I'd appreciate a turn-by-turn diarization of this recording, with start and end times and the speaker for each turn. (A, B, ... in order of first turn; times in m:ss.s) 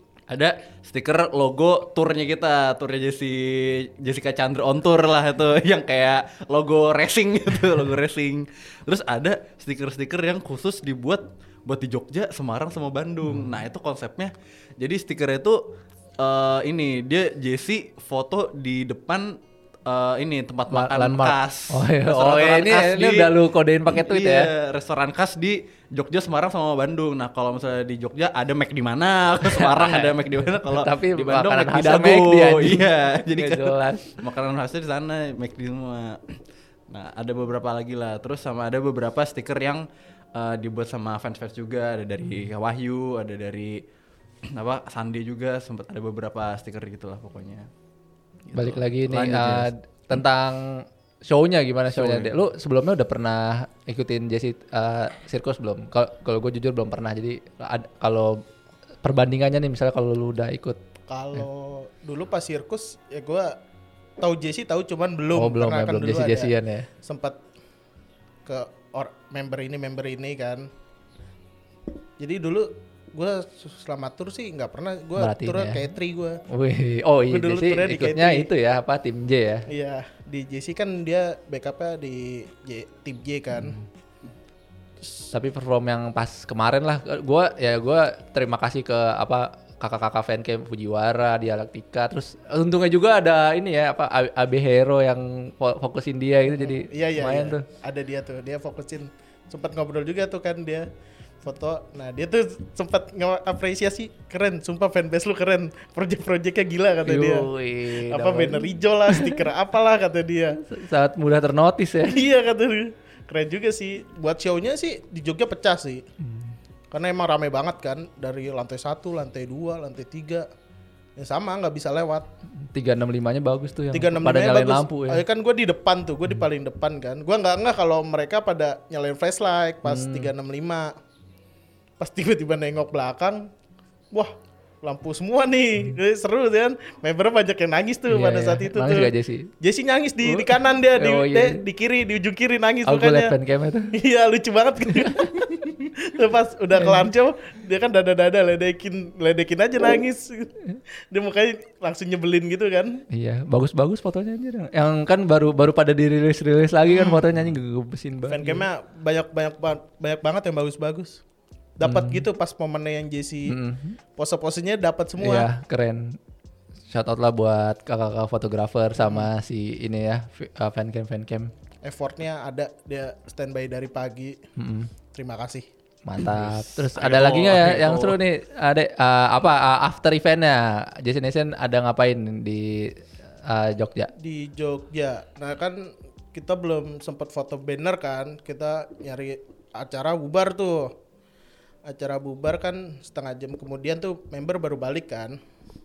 0:00.3-0:15.6 A
0:13.3-0:13.5 B
0:16.2-0:36.4 A
0:20.7-0:24.5 B
0:29.5-0:34.2 B
0:36.9-0:43.8 A
0:44.5-0:47.7 A
0:48.5-0:49.7 A
0:48.5-0:58.4 B
0:51.9-0:52.3 A
0:59.0-1:00.8 B
1:01.1-1:03.6 C
1:04.2-1:06.5 C
1:05.3-1:06.9 B
1:07.0-1:07.4 C
1:08.5-1:10.7 C
1:12.2-1:16.4 C
1:15.2-1:15.8 B
1:16.5-1:19.7 B
1:17.3-1:18.5 C
1:19.7-1:23.8 C
1:23.6-1:23.8 B
1:25.3-1:37.6 B
1:36.6-1:40.9 C
1:41.4-1:47.5 C
1:47.0-1:49.4 B
1:48.1-1:50.6 C
1:50.6-1:52.2 B
1:52.1-1:56.0 C
1:56.2-1:56.5 B
1:56.9-2:00.5 C
2:01.2-2:02.3 C
2:02.6-2:05.2 B
2:03.9-2:11.0 C
2:09.8-2:10.3 B
2:12.0-2:13.5 C
2:14.1-2:23.4 C
2:18.1-2:19.5 B
2:20.2-2:21.6 B
2:22.9-2:23.9 B
2:23.9-2:30.6 C
2:26.8-2:27.1 B
2:31.1-2:33.0 C
2:33.1-2:38.6 B
2:36.9-2:37.2 C
2:38.3-2:41.2 C
2:41.8-2:43.6 C
2:41.8-2:42.2 B
2:43.5-2:44.0 B
2:44.2-2:45.5 C
2:45.2-2:46.2 B
2:46.9-2:51.5 B
2:49.0-2:49.3 C
2:51.8-2:54.4 C
2:54.6-2:54.9 B
2:55.1-2:55.7 C
2:56.1-3:02.9 B
2:56.2-2:58.2 A
3:03.5-3:04.1 B
3:04.2-3:10.9 C
3:11.8-3:15.4 C